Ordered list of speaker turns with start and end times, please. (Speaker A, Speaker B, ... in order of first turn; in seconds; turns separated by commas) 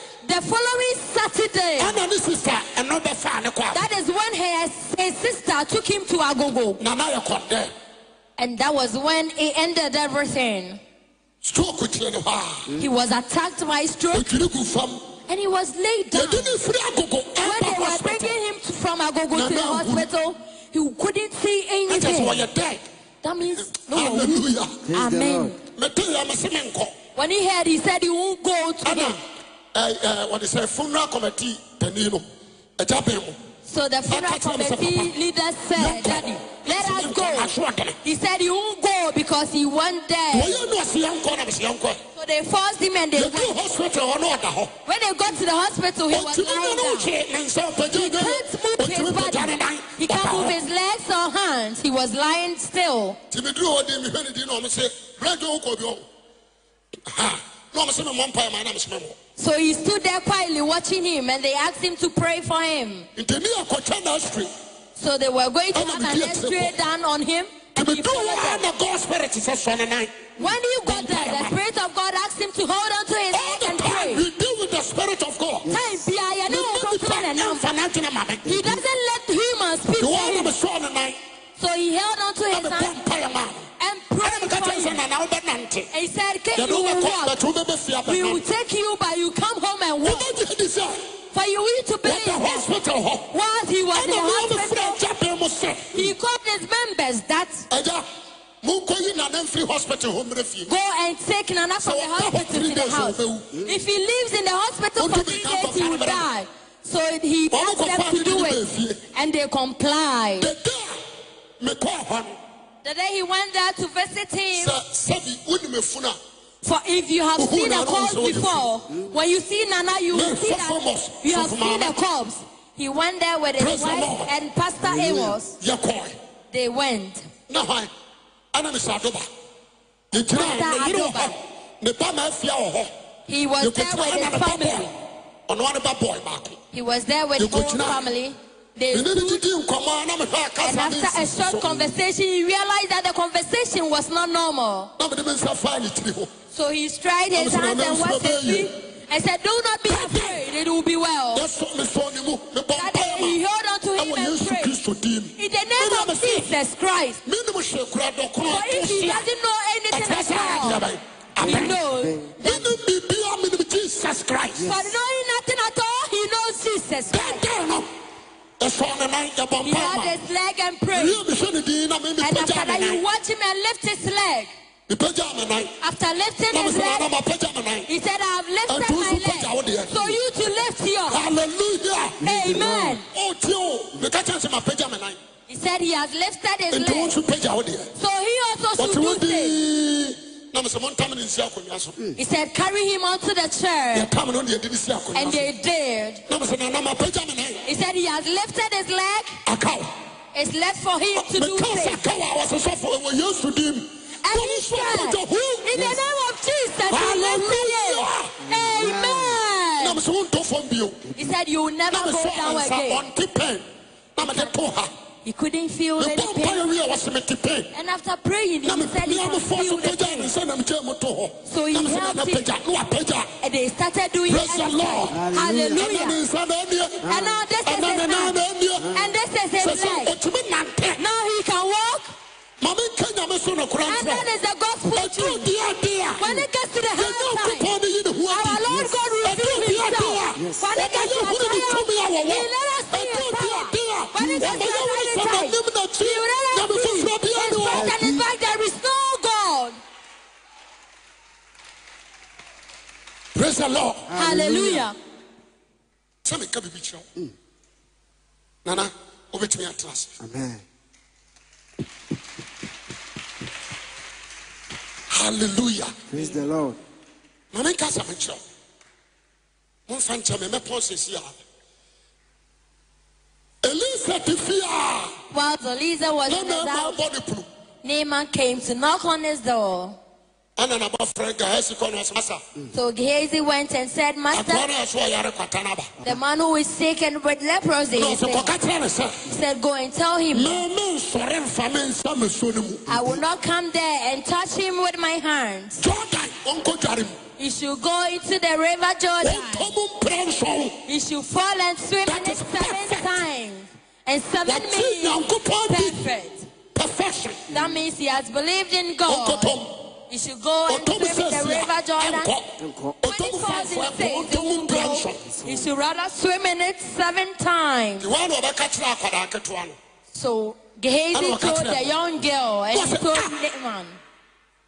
Speaker A: 0.2-2.0, Speaker B: 1.8-3.9, Speaker A: 3.7-6.8, Speaker B: 6.8-7.7, Speaker A: 8.4-10.8, Speaker B: 11.4-12.7, Speaker A: 12.8-14.3, Speaker B: 14.1-15.0, Speaker A: 15.3-16.6, Speaker B: 16.1-18.4, Speaker A: 17.4-22.4, Speaker B: 19.3-20.1, Speaker B: 21.9-22.8, Speaker A: 23.2-24.4, Speaker B: 23.6-24.8, Speaker C: 24.9-25.5, Speaker A: 24.9-25.6, Speaker B: 25.8-26.9, Speaker A: 27.2-29.2, Speaker B: 28.9-29.2, Speaker B: 29.7-32.2, Speaker B: 32.8-33.4, Speaker A: 33.6-37.5, Speaker B: 34.1-35.1, Speaker B: 35.8-38.0, Speaker A: 38.0-40.6, Speaker B: 40.3-42.0, Speaker A: 42.1-43.5, Speaker B: 43.1-44.7, Speaker A: 44.9-47.1, Speaker B: 46.1-50.6, Speaker A: 47.9-53.2, Speaker B: 53.3-56.0, Speaker B: 57.1-59.2, Speaker A: 59.4-63.1, Speaker B: 63.2-64.5, Speaker A: 65.0-68.7, Speaker B: 65.7-66.7, Speaker B: 67.8-71.5, Speaker A: 70.4-74.2, Speaker B: 73.3-75.7, Speaker A: 75.7-77.7, Speaker B: 76.5-78.7, Speaker A: 78.5-80.5, Speaker B: 80.0-81.2, Speaker A: 81.6-82.9, Speaker B: 82.5-83.7, Speaker A: 83.8-85.0, Speaker B: 84.2-85.9, Speaker A: 85.9-87.4, Speaker B: 86.5-88.4, Speaker A: 88.1-90.3, Speaker B: 90.0-91.0, Speaker A: 91.3-92.7, Speaker B: 92.0-93.3, Speaker A: 93.3-95.0, Speaker B: 94.0-96.1, Speaker A: 95.9-97.7, Speaker B: 97.7-98.0, Speaker B: 98.6-100.7, Speaker A: 100.7-108.6, Speaker B: 101.8-103.6, Speaker B: 105.0-106.3, Speaker B: 107.5-109.0, Speaker A: 109.1-110.5, Speaker B: 110.4-111.0, Speaker B: 111.6-112.4, Speaker A: 112.8-114.7, Speaker B: 114.6-116.2, Speaker A: 116.6-125.6, Speaker B: 117.4-118.7, Speaker B: 120.1-122.0, Speaker B: 123.6-124.3, Speaker C: 124.8-125.4, Speaker B: 125.6-126.2, Speaker A: 126.5-127.3, Speaker B: 127.5-127.9, Speaker B: 128.5-129.3, Speaker B: 130.1-132.9, Speaker A: 130.3-131.3, Speaker A: 133.3-134.9, Speaker B: 133.6-134.9, Speaker B: 135.5-136.6, Speaker A: 136.7-139.4, Speaker B: 137.4-138.0, Speaker B: 138.9-141.7, Speaker A: 140.6-144.9, Speaker B: 145.0-146.3, Speaker A: 146.5-151.4, Speaker B: 147.3-148.7, Speaker B: 149.9-150.4, Speaker B: 151.3-153.4, Speaker A: 152.7-154.8, Speaker B: 154.0-156.5, Speaker A: 155.4-157.2, Speaker B: 157.2-159.2, Speaker A: 158.5-160.8, Speaker B: 159.9-161.8, Speaker C: 161.4-162.3, Speaker A: 161.4-162.8, Speaker B: 162.4-164.7, Speaker C: 164.5-164.9, Speaker A: 164.6-167.4, Speaker B: 167.1-167.9, Speaker B: 168.6-170.2, Speaker A: 169.6-171.2, Speaker B: 170.9-173.0, Speaker A: 172.2-174.5, Speaker B: 174.9-175.8, Speaker A: 175.8-177.1, Speaker B: 176.5-177.9, Speaker A: 177.9-181.2, Speaker B: 178.7-180.2, Speaker B: 181.1-182.2, Speaker C: 182.2-183.0, Speaker A: 182.2-183.1, Speaker B: 183.1-185.2, Speaker A: 185.5-187.2, Speaker B: 186.7-187.9, Speaker A: 187.9-189.6, Speaker B: 188.8-192.0, Speaker A: 192.2-194.1, Speaker B: 193.9-195.5, Speaker A: 195.2-196.2, Speaker B: 196.3-197.7, Speaker A: 197.7-199.4, Speaker B: 199.5-199.9, Speaker A: 200.3-202.0, Speaker B: 201.2-206.0, Speaker A: 204.2-210.0, Speaker B: 206.9-208.3, Speaker C: 208.4-209.4, Speaker B: 209.8-211.1, Speaker A: 211.1-213.1, Speaker B: 211.9-213.7, Speaker B: 214.2-214.9, Speaker A: 214.2-214.5, Speaker A: 215.2-216.6, Speaker B: 216.0-217.7, Speaker A: 217.7-220.3, Speaker B: 218.6-223.3, Speaker A: 221.4-222.5, Speaker A: 223.4-226.2, Speaker B: 224.3-225.2, Speaker C: 225.1-225.8, Speaker B: 225.7-227.1, Speaker C: 227.0-227.4, Speaker A: 227.1-230.1, Speaker B: 227.6-229.0, Speaker B: 229.6-231.0, Speaker A: 231.0-232.2, Speaker B: 232.6-234.3, Speaker A: 233.9-235.5, Speaker B: 234.9-236.3, Speaker A: 236.2-237.7, Speaker B: 237.0-238.7, Speaker A: 238.3-249.8, Speaker C: 238.7-239.2, Speaker B: 239.2-247.9, Speaker C: 240.3-240.7, Speaker C: 244.2-244.7, Speaker C: 247.7-248.3, Speaker B: 253.3-254.4, Speaker C: 254.1-254.9, Speaker A: 254.1-255.0, Speaker B: 256.2-257.1, Speaker B: 258.6-260.1, Speaker C: 260.2-260.6, Speaker B: 265.1-266.0, Speaker C: 266.1-266.8, Speaker B: 267.5-268.4, Speaker B: 269.9-271.4, Speaker B: 273.6-275.2, Speaker A: 275.3-277.0, Speaker B: 276.3-277.5, Speaker A: 277.8-280.0, Speaker B: 280.6-282.4, Speaker A: 282.7-284.7, Speaker B: 284.3-285.9, Speaker A: 286.0-288.5, Speaker B: 287.9-289.2, Speaker A: 289.3-290.6, Speaker B: 290.3-292.9, Speaker A: 292.9-295.9, Speaker B: 295.8-297.1, Speaker A: 297.4-299.7, Speaker B: 299.2-300.8, Speaker A: 300.9-306.5, Speaker B: 302.1-303.2, Speaker B: 304.5-306.0, Speaker B: 306.7-307.5, Speaker A: 307.5-309.6, Speaker C: 307.5-307.8, Speaker B: 309.1-309.7, Speaker A: 310.1-312.3, Speaker B: 310.7-312.5, Speaker C: 312.6-313.0, Speaker B: 313.0-315.2, Speaker A: 313.1-318.1, Speaker C: 315.2-315.7, Speaker B: 318.0-319.8, Speaker A: 320.1-324.0, Speaker B: 321.1-321.9, Speaker B: 322.7-323.4